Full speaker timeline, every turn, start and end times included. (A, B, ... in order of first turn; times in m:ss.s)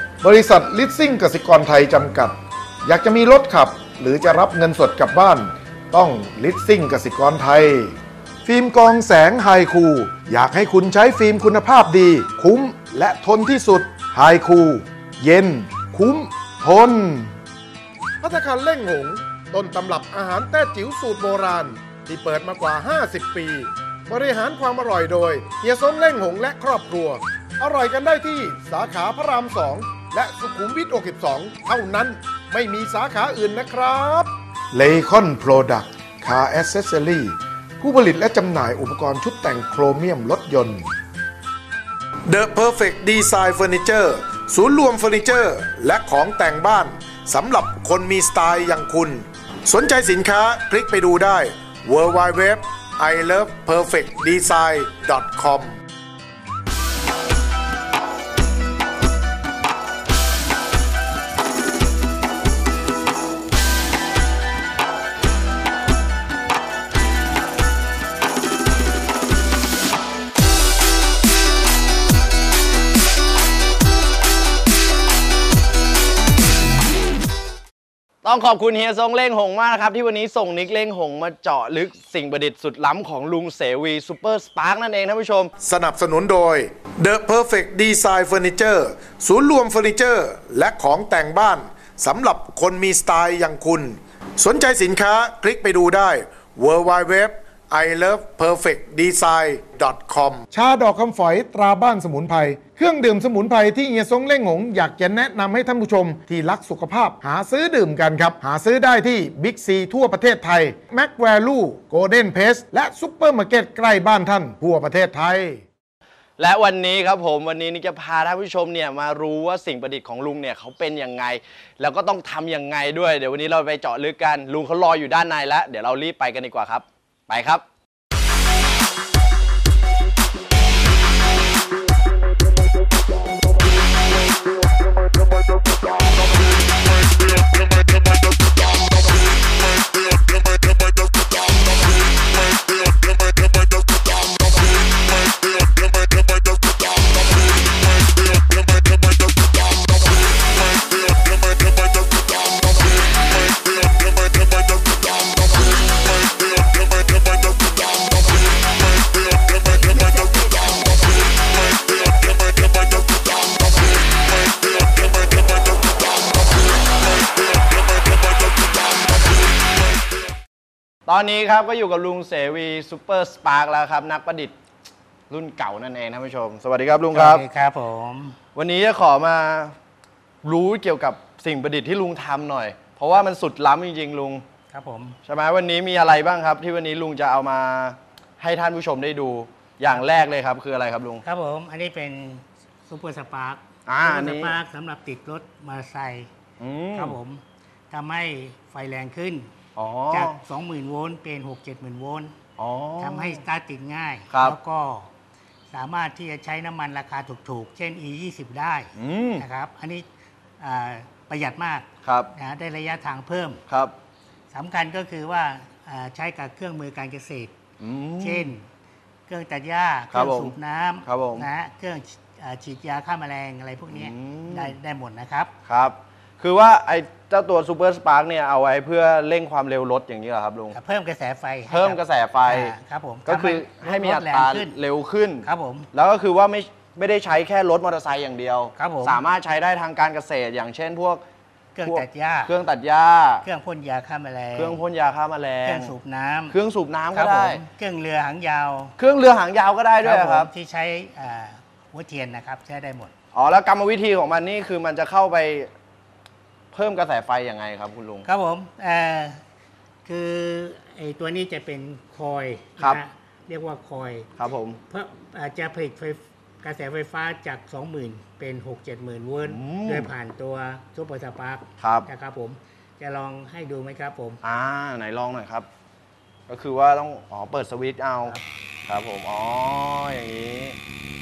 0:00.2-0:07.9 A
0:08.4-0:17.4 A
0:18.2-0:40.9 A
0:42.3-0:55.8 A
1:18.2-1:25.5 B
1:25.6-1:55.6 A
1:56.4-2:07.6 B
2:51.0-2:54.5 B
2:55.3-2:57.4 B
2:57.1-2:58.4 C
2:58.5-2:59.7 B
3:00.4-3:04.4 B
3:04.7-3:05.2 C
3:05.2-3:11.2 B
3:11.2-3:16.3 C
3:13.9-3:14.6 B
3:16.6-3:17.2 B
3:16.9-3:19.5 C
3:19.8-3:20.4 B
3:20.1-3:22.3 C
3:22.6-3:23.4 B
3:23.0-3:25.1 C
3:24.3-3:24.6 B
3:25.7-3:30.0 C
3:29.0-3:29.4 B
3:30.6-3:33.6 C
3:32.0-3:32.3 B
3:33.7-3:33.9 B
3:34.5-3:37.5 C
3:37.8-3:38.5 B
3:38.2-3:38.7 C
3:39.3-3:45.5 C
3:40.1-3:40.5 B
3:41.0-3:41.5 B
3:43.9-3:44.7 B
3:45.6-3:50.8 B
3:50.7-3:54.8 C
3:51.7-3:52.7 B
3:53.2-4:01.2 B
3:55.4-3:55.9 C
3:58.8-3:59.2 C
4:01.8-4:02.5 C
4:01.8-4:03.4 B
4:03.4-4:04.8 C
4:04.5-4:05.9 B
4:05.6-4:06.6 C
4:06.5-4:07.6 B
4:07.1-4:08.9 C
4:09.0-4:10.5 B
4:10.0-4:13.1 C
4:13.3-4:15.7 B
4:16.7-4:18.3 B
4:18.2-4:19.4 C
4:20.0-4:24.3 C
4:24.4-4:24.8 B
4:24.9-4:34.4 C
4:29.4-4:30.1 B
4:31.8-4:32.1 B
4:34.4-4:35.6 B
4:36.5-4:38.3 B
4:38.9-4:40.8 B